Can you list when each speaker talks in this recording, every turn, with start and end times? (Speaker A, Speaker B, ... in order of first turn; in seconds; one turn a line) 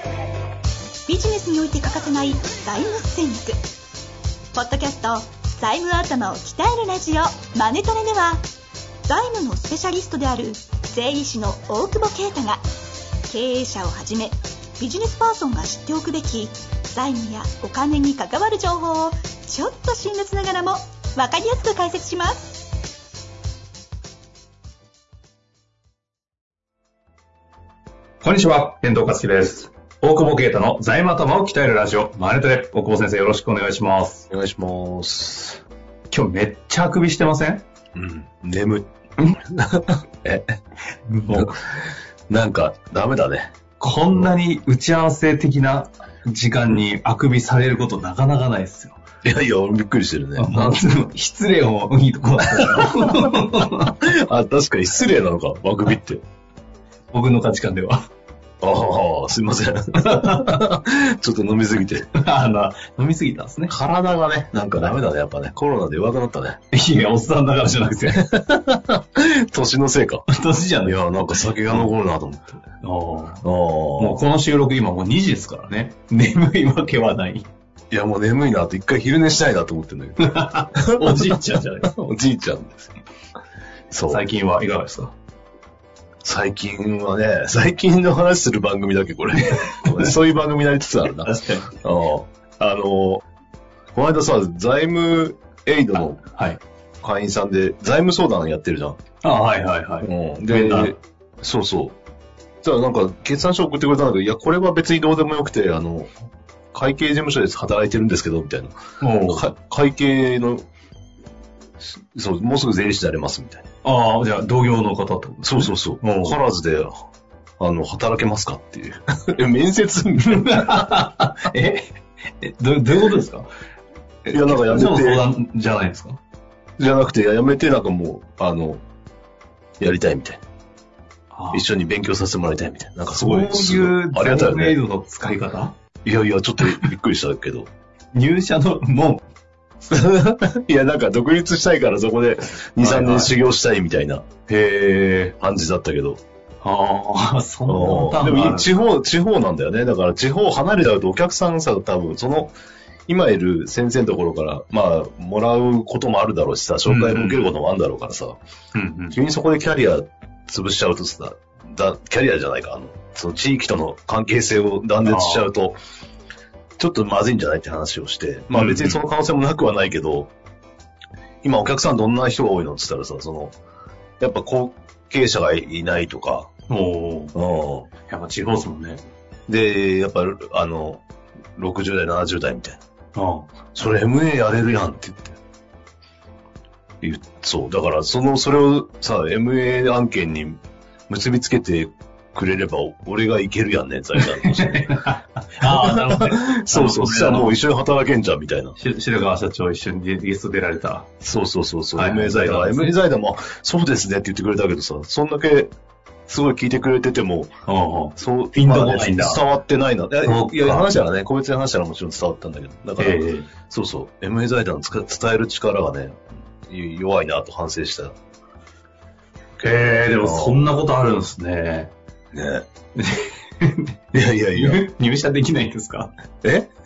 Speaker A: 1.1-3.6
Speaker A: 4.5-8.4
Speaker A: 9.1-12.6
Speaker A: 13.3-22.8
Speaker B: 28.2-34.2
Speaker C: 34.3-35.6
Speaker B: 36.1-37.6
Speaker C: 37.9-40.5
Speaker B: 41.1-41.5
Speaker C: 41.3-41.6
Speaker C: 42.3-43.5
Speaker B: 43.8-49.0
Speaker C: 49.2-50.8
Speaker B: 50.4-54.0
Speaker C: 52.4-56.2
Speaker B: 57.1-58.1
Speaker C: 58.6-62.1
Speaker B: 60.0-60.6
Speaker B: 62.1-63.7
Speaker C: 63.7-66.6
Speaker B: 66.7-68.3
Speaker C: 68.1-70.2
Speaker B: 70.3-71.9
Speaker C: 70.8-72.6
Speaker B: 72.8-73.4
Speaker C: 73.4-74.2
Speaker B: 74.0-77.5
Speaker C: 77.9-82.9
Speaker B: 80.2-81.9
Speaker C: 83.9-84.2
Speaker B: 84.1-85.1
Speaker C: 86.2-93.2
Speaker B: 89.5-90.1
Speaker B: 91.2-91.7
Speaker C: 93.9-96.2
Speaker B: 96.3-96.6
Speaker C: 97.0-99.0
Speaker B: 99.2-101.0
Speaker C: 100.0-102.0
Speaker C: 102.6-106.1
Speaker C: 106.7-108.7
Speaker B: 109.0-109.5
Speaker C: 109.3-110.7
Speaker C: 111.8-113.7
Speaker B: 113.8-116.4
Speaker C: 115.4-117.0
Speaker C: 117.6-121.0
Speaker B: 120.2-123.5
Speaker C: 124.3-125.2
Speaker B: 124.3-126.2
Speaker C: 126.8-128.8
Speaker C: 129.8-130.4
Speaker B: 131.3-131.6
Speaker C: 131.5-134.8
Speaker B: 133.1-135.8
Speaker C: 136.0-137.7
Speaker B: 136.6-136.8
Speaker B: 138.1-139.2
Speaker C: 139.9-144.2
Speaker B: 142.8-143.3
Speaker B: 144.5-145.3
Speaker C: 145.4-146.2
Speaker B: 146.6-148.8
Speaker C: 147.7-152.5
Speaker C: 153.1-158.4
Speaker B: 156.8-157.5
Speaker B: 158.7-159.2
Speaker C: 159.1-165.8
Speaker B: 165.0-165.5
Speaker C: 166.8-170.3
Speaker B: 168.5-169.0
Speaker C: 171.4-173.5
Speaker C: 174.2-176.5
Speaker B: 176.7-177.3
Speaker C: 177.3-177.9
Speaker B: 178.1-179.0
Speaker C: 179.5-181.0
Speaker C: 181.6-182.8
Speaker B: 183.1-183.5
Speaker C: 183.7-185.4
Speaker C: 187.0-194.9
Speaker B: 194.2-197.6
Speaker C: 195.6-198.8
Speaker B: 198.8-201.1
Speaker C: 201.2-205.7
Speaker B: 201.9-202.9
Speaker C: 206.3-207.5
Speaker B: 207.7-209.4
Speaker C: 208.2-218.2
Speaker B: 210.2-211.0
Speaker B: 213.0-213.5
Speaker B: 219.6-221.9
Speaker C: 219.6-220.7
Speaker C: 222.3-222.7
Speaker B: 223.0-226.1
Speaker C: 224.1-224.8
Speaker C: 226.4-226.7